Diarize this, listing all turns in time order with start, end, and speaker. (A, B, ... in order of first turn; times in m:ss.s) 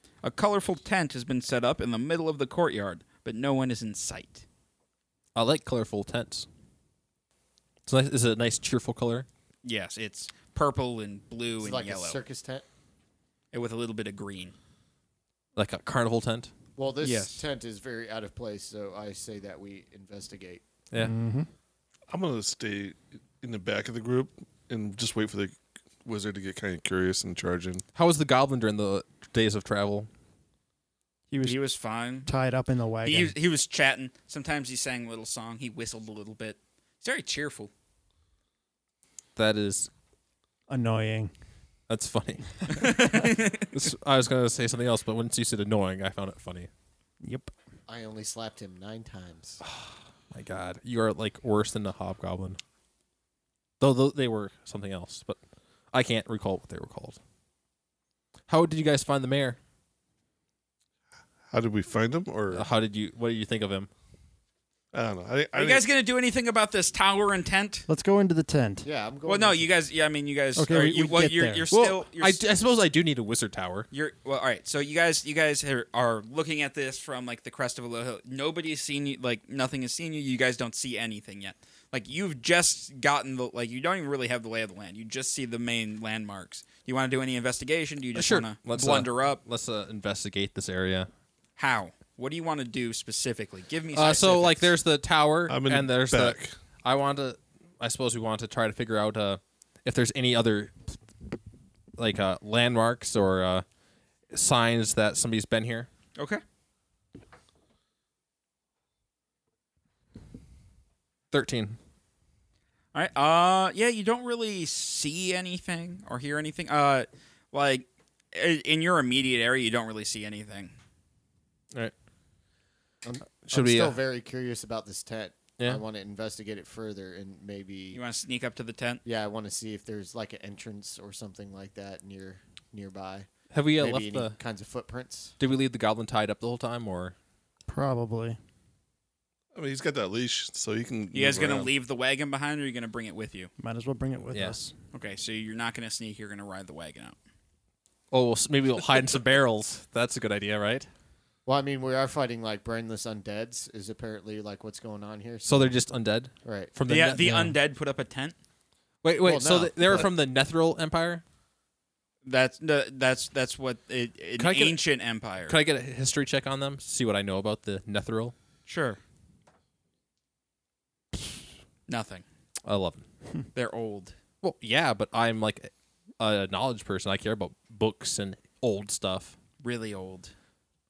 0:00.2-0:04.4 A
0:05.4-0:06.5 B
0:07.8-0:09.3 B
0:09.6-0:12.2 A
0:11.6-0:12.6 C
0:13.5-0:14.5 A
0:15.6-0:16.5 B
0:16.8-0:20.6 C
0:17.0-0:17.4 A
0:21.0-0:21.5 D
0:22.1-0:27.8 E
0:28.0-0:30.1 B
0:31.3-0:31.6 D
0:31.4-0:32.3 A
0:32.3-0:33.4 D
0:33.0-0:37.7 A
0:39.4-0:39.9 B
0:40.7-0:41.3 D
0:41.9-0:42.6 B
0:42.7-0:43.7 A
0:43.1-0:46.7 B
0:47.2-0:47.5 D
0:47.9-0:49.6 C
0:49.6-0:52.6 B
0:53.8-0:55.4 B
0:55.9-0:57.2 B
0:58.5-0:59.6 B
1:01.5-1:02.7 E
1:02.5-1:03.9 B
1:04.9-1:05.8 E
1:05.5-1:07.9 A
1:07.9-1:08.9 D
1:08.8-1:09.7 C
1:09.3-1:12.4 A
1:10.6-1:11.7 D
1:11.7-1:13.9 B
1:13.9-1:29.4 A
1:28.2-1:31.1 B
1:31.6-1:34.7 A
1:33.9-1:41.0 B
1:35.5-1:36.6 E
1:42.0-1:43.6 B
1:44.3-1:45.9 B
1:46.2-1:46.4 A
1:51.3-1:51.8 B
1:52.9-2:00.7 A
2:03.0-2:08.0 C
2:03.5-2:04.0 B
2:07.9-2:09.0 A
2:09.0-2:15.3 C
2:13.5-2:14.4 B
2:15.4-2:17.2 B
2:17.7-2:18.4 D
2:19.5-2:21.7 E
2:21.1-2:23.5 A
2:23.6-2:24.7 D
2:24.9-2:27.2 A
2:28.1-2:30.9 B
2:31.5-2:35.7 C
2:35.4-2:37.6 B
2:36.4-2:36.7 C
2:36.8-2:38.4 A
2:39.0-2:41.2 B
2:39.2-2:40.1 C
2:42.2-2:45.6 A
2:44.4-2:44.8 B
2:45.5-2:48.3 B
2:48.7-2:49.0 A
2:51.9-2:52.2 A
2:52.6-2:53.0 B
2:53.5-2:54.2 A
2:54.4-2:59.4 B
2:59.6-3:00.3 A